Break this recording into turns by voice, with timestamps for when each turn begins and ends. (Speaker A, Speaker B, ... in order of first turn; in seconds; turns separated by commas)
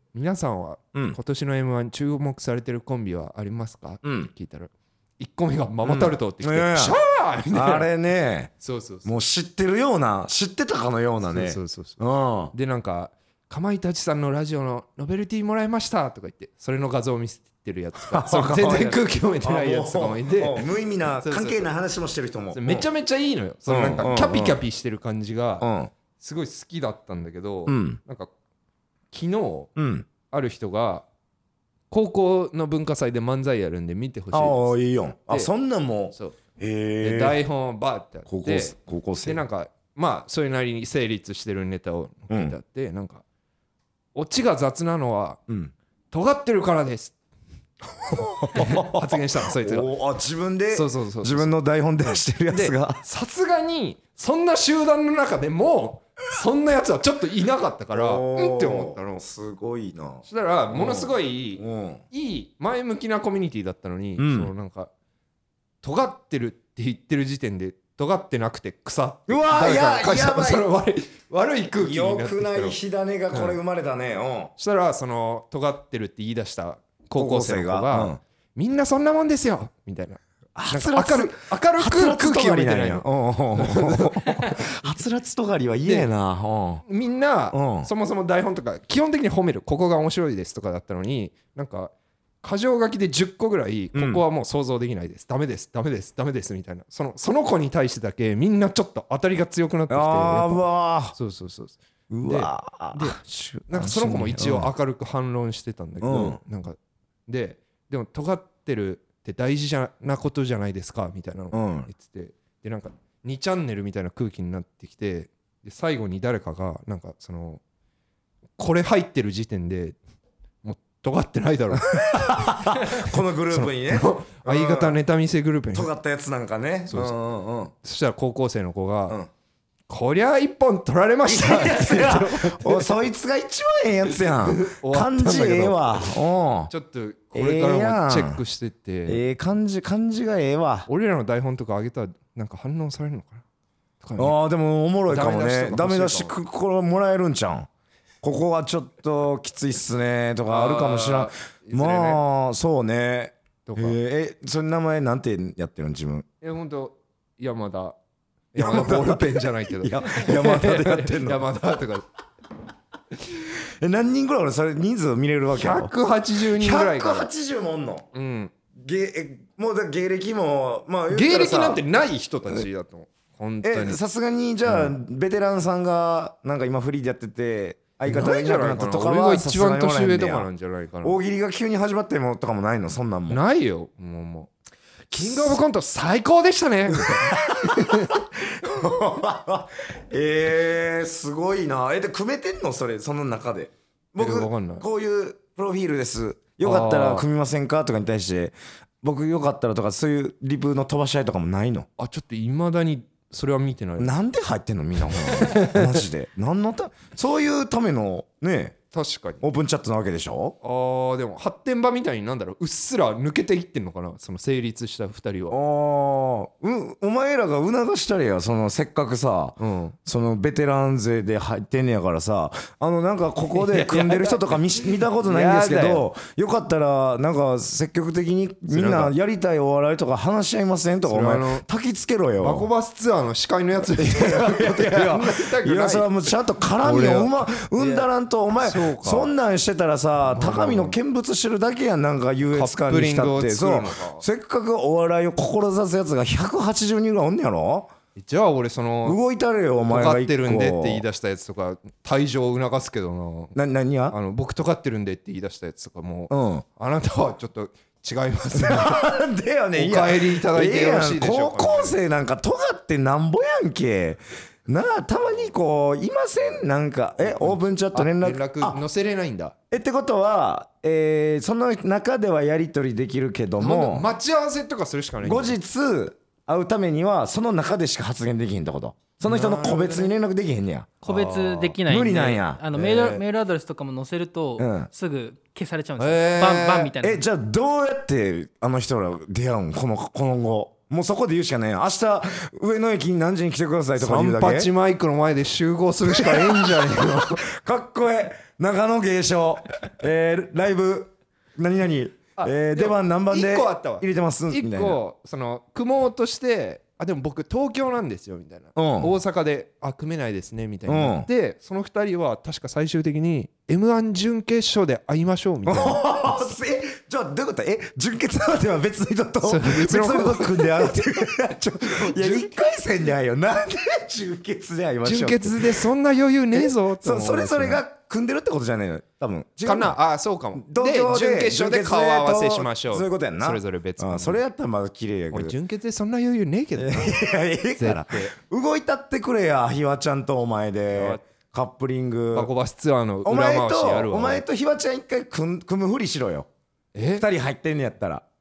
Speaker A: 0.1-7.9, Speaker B: 4.0-4.3, Speaker B: 5.8-7.0, Speaker B: 7.5-12.5, Speaker A: 8.6-9.1, Speaker A: 11.2-12.0, Speaker A: 12.5-21.7, Speaker B: 18.0-22.9, Speaker A: 22.5-25.7, Speaker B: 23.7-24.6, Speaker B: 25.6-25.9, Speaker A: 26.2-28.3, Speaker B: 27.7-28.0, Speaker A: 29.1-29.7, Speaker B: 29.8-30.1, Speaker A: 30.3-31.1, Speaker A: 31.9-34.8, Speaker B: 34.3-37.4, Speaker A: 37.0-43.2, Speaker B: 38.3-39.4, Speaker B: 42.3-42.6, Speaker A: 44.1-45.4, Speaker B: 45.5-45.7, Speaker A: 46.1-47.1, Speaker B: 48.0-53.0, Speaker A: 48.5-49.9, Speaker A: 50.7-51.5, Speaker A: 52.5-59.2, Speaker B: 57.9-62.0, Speaker A: 60.2-64.9, Speaker B: 64.2-64.5, Speaker A: 65.8-72.8, Speaker B: 69.3-70.7, Speaker B: 71.8-74.5, Speaker A: 73.3-73.6, Speaker A: 74.6-84.8, Speaker B: 77.2-78.2, Speaker B: 80.5-86.8, Speaker A: 86.9-91.9, Speaker B: 87.5-87.9, Speaker A: 92.4-100.6, Speaker B: 93.9-94.2, Speaker B: 99.9-101.2, Speaker A: 101.1-103.2, Speaker B: 102.1-104.7, Speaker A: 103.7-117.6, Speaker B: 106.0-106.4, Speaker B: 111.5-111.9, Speaker A: 118.6-120.0, Speaker A: 120.6-125.9, Speaker B: 121.9-125.0, Speaker B: 125.7-127.7, Speaker A: 126.9-127.2, Speaker A: 127.8-129.2, Speaker A: 129.9-132.9, Speaker B: 131.3-136.7, Speaker A: 134.1-136.1, Speaker A: 136.7-139.2, Speaker B: 137.3-138.4, Speaker B: 139.1-140.9, Speaker A: 140.9-143.4, Speaker A: 144.0-144.4, Speaker B: 144.2-147.7, Speaker A: 145.1-146.3, Speaker B: 148.2-156.3, Speaker A: 150.5-152.2, Speaker A: 153.7-154.0, Speaker A: 156.4-158.0, Speaker A: 158.5-162.1, Speaker B: 158.6-161.5, Speaker B: 163.3-168.1, Speaker A: 165.5-167.3, Speaker A: 168.1-168.5, Speaker B: 168.8-171.8, Speaker A: 171.1-174.0, Speaker B: 173.6-180.5, Speaker A: 174.7-175.0, Speaker A: 178.1-181.2, Speaker B: 181.0-183.4, Speaker A: 183.3-184.5, Speaker A: 185.1-188.2, Speaker B: 185.1-185.6, Speaker B: 186.9-201.9, Speaker A: 194.2-194.8, Speaker A: 196.6-197.3, Speaker A: 202.0-204.1, Speaker B: 204.0-208.8, Speaker A: 205.3-205.9, Speaker A: 208.9-209.4, Speaker B: 209.4-210.6, Speaker A: 210.6-215.6, Speaker B: 215.5-232.7, Speaker A: 219.6-220.0, Speaker A: 223.5-226.1, Speaker A: 228.7-229.1, Speaker A: 231.1-231.7, Speaker A: 232.4-236.1, Speaker B: 234.0-247.9, Speaker A: 236.8-239.3, Speaker A: 240.3-241.0, Speaker A: 242.5-244.2, Speaker A: 248.2-249.2, Speaker B: 249.1-251.1, Speaker A: 249.9-253.6, Speaker B: 253.6-254.2, Speaker A: 254.1-259.1, Speaker B: 256.3-256.6, Speaker B: 258.6-268.8, Speaker A: 259.8-262.0, Speaker A: 267.2-269.6, Speaker B: 269.7-274.1, Speaker A: 273.6-275.6, Speaker B: 275.2-282.7, Speaker A: 279.2-280.1, Speaker C: 281.0-287.2, Speaker A: 281.1-281.5, Speaker A: 282.8-283.2, Speaker B: 284.6-284.9, Speaker A: 286.0-286.9, Speaker B: 286.9-294.7, Speaker A: 294.0-297.5, Speaker B: 296.1-305.0, Speaker A: 302.4-316.4, Speaker B: 308.8-309.1, Speaker B: 310.9-311.3, Speaker B: 315.7-325.9, Speaker A: 319.4-321.0, Speaker A: 321.8-322.6, Speaker A: 325.0-327.8, Speaker B: 326.5-330.0, Speaker A: 329.6-334.4, Speaker B: 330.6-335.6, Speaker A: 335.3-337.2, Speaker B: 336.8-342.5, Speaker A: 337.8-338.3, Speaker A: 340.9-341.2, Speaker A: 342.3-344.4, Speaker B: 343.2-346.5, Speaker A: 346.9-347.2, Speaker B: 347.2-348.2